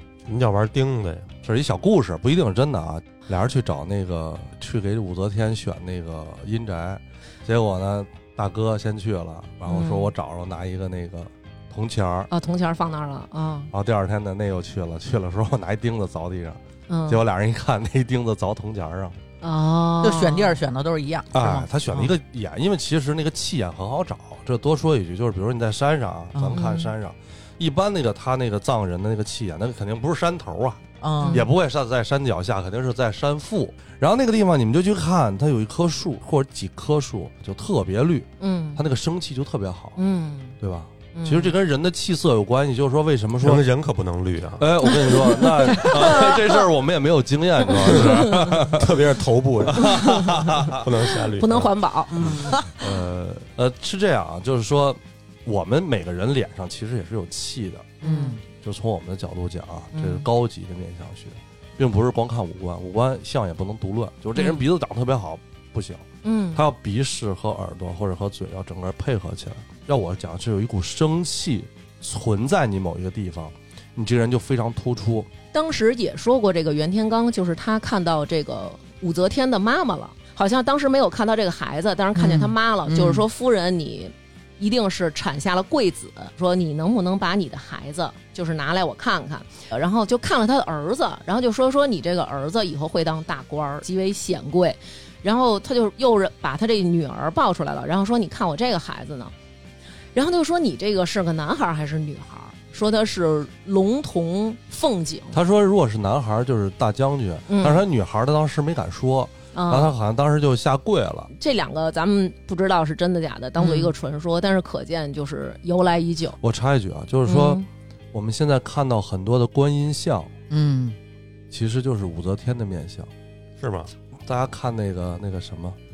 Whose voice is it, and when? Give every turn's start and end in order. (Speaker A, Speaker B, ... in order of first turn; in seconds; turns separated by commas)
Speaker A: 0.3-1.3, Speaker B: 1.4-12.3, Speaker C: 9.7-10.1, Speaker C: 12.3-13.7, Speaker B: 13.7-19.2, Speaker C: 16.9-17.2, Speaker C: 19.4-20.6, Speaker D: 20.0-22.1, Speaker B: 21.3-30.8, Speaker D: 26.3-26.6, Speaker C: 26.5-26.9, Speaker D: 31.0-31.4, Speaker C: 31.2-31.5, Speaker B: 31.3-40.0, Speaker C: 38.4-38.8, Speaker C: 40.0-40.6, Speaker B: 40.6-43.6, Speaker C: 41.1-41.5, Speaker A: 43.4-44.7, Speaker B: 44.6-49.0, Speaker C: 44.9-46.6, Speaker C: 47.8-48.5, Speaker A: 47.9-52.4, Speaker B: 49.7-50.9, Speaker C: 49.8-50.8, Speaker C: 51.4-52.7, Speaker B: 52.6-58.0, Speaker C: 58.0-58.4, Speaker D: 58.0-58.4, Speaker B: 58.6-75.3, Speaker C: 59.9-60.2, Speaker C: 64.4-64.6, Speaker C: 66.2-66.6, Speaker C: 75.5-99.3, Speaker D: 82.2-83.3, Speaker C: 100.2-105.4, Speaker B: 105.3-111.3, Speaker C: 107.5-107.9, Speaker C: 109.5-109.9, Speaker C: 111.3-116.4, Speaker D: 113.6-113.9, Speaker B: 116.4-117.6, Speaker C: 117.2-117.7, Speaker B: 118.1-120.3, Speaker D: 120.5-121.0, Speaker B: 121.5-123.1, Speaker A: 123.6-123.9, Speaker B: 124.3-125.8